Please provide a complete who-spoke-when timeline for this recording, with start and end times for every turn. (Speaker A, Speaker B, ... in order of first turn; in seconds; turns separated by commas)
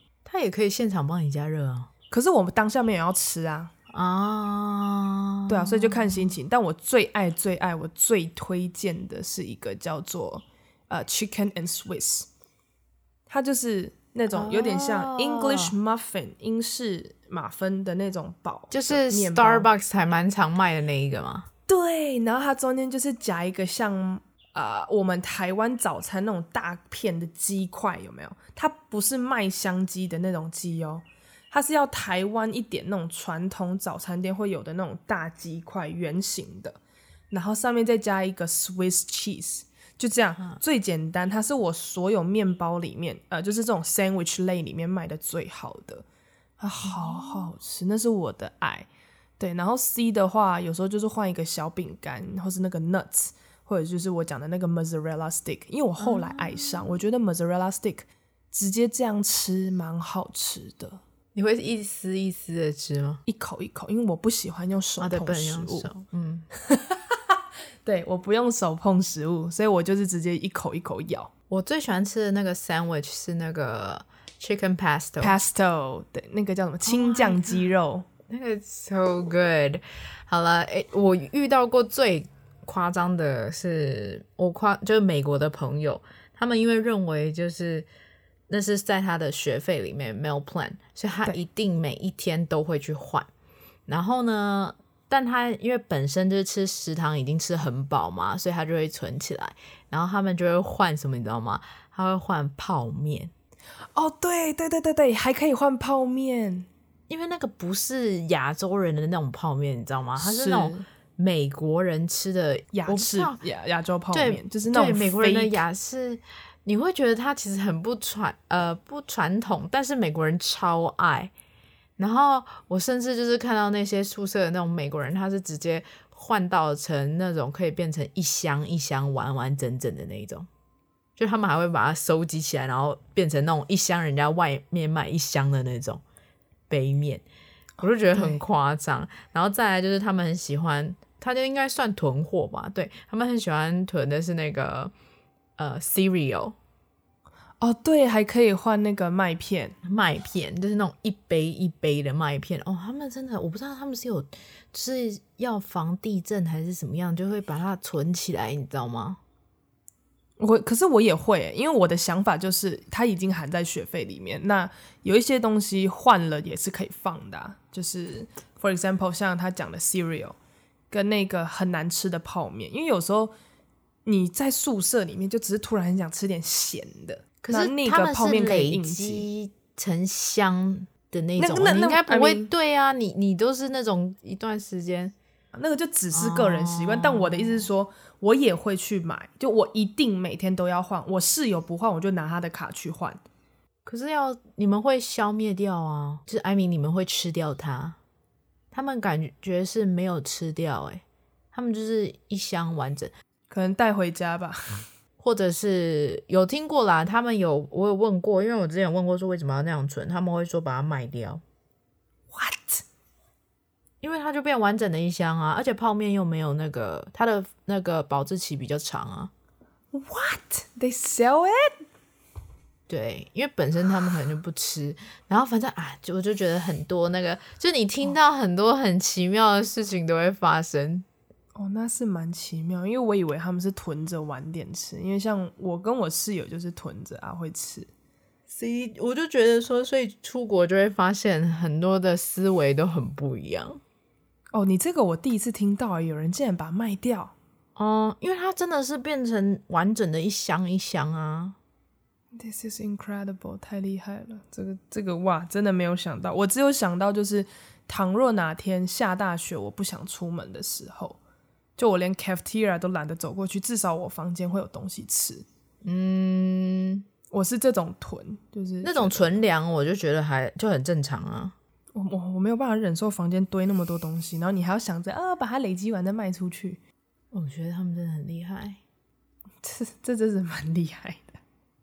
Speaker A: 0.2-1.9, Speaker B: 2.1-3.7, Speaker A: 3.9-6.3, Speaker B: 5.5-12.3, Speaker B: 13.3-19.7, Speaker A: 14.3-15.7, Speaker A: 18.7-21.5, Speaker B: 21.7-36.8, Speaker B: 37.3-46.0, Speaker B: 46.6-48.9, Speaker A: 46.8-47.5, Speaker B: 49.4-61.0, Speaker A: 56.0-56.9, Speaker A: 61.4-63.2, Speaker B: 63.2-65.9, Speaker A: 65.0-66.5, Speaker B: 66.6-67.2, Speaker B: 67.8-71.3, Speaker A: 71.5-75.3, Speaker B: 75.2-78.1, Speaker A: 76.9-77.7, Speaker A: 78.3-87.9, Speaker A: 88.5-93.3, Speaker A: 93.9-103.3, Speaker B: 103.9-106.7, Speaker A: 107.1-113.4, Speaker B: 110.2-110.8, Speaker B: 112.7-115.6, Speaker A: 114.1-121.3, Speaker A: 122.0-130.5, Speaker A: 131.2-136.0, Speaker A: 136.7-137.2, Speaker A: 137.8-144.9, Speaker B: 138.1-138.4, Speaker A: 145.6-146.6, Speaker B: 147.6-149.8, Speaker A: 149.8-159.2, Speaker B: 160.4-170.4, Speaker B: 170.9-173.3, Speaker B: 174.1-179.3, Speaker A: 177.4-185.1, Speaker B: 181.4-182.5, Speaker B: 185.5-193.2, Speaker A: 186.1-187.7, Speaker A: 193.8-198.0, Speaker A: 198.7-203.1, Speaker B: 203.5-204.8, Speaker A: 205.2-211.4, Speaker B: 212.3-212.8, Speaker A: 214.0-219.3, Speaker B: 219.9-221.8, Speaker A: 222.9-231.1, Speaker B: 231.6-237.9, Speaker A: 238.5-243.8, Speaker B: 244.5-247.3, Speaker A: 247.8-251.6, Speaker B: 252.3-261.2, Speaker B: 261.8-265.4, Speaker A: 265.8-267.1, Speaker B: 267.3-269.4, Speaker A: 268.8-271.6, Speaker B: 271.9-276.8, Speaker A: 277.3-278.8, Speaker B: 279.6-281.4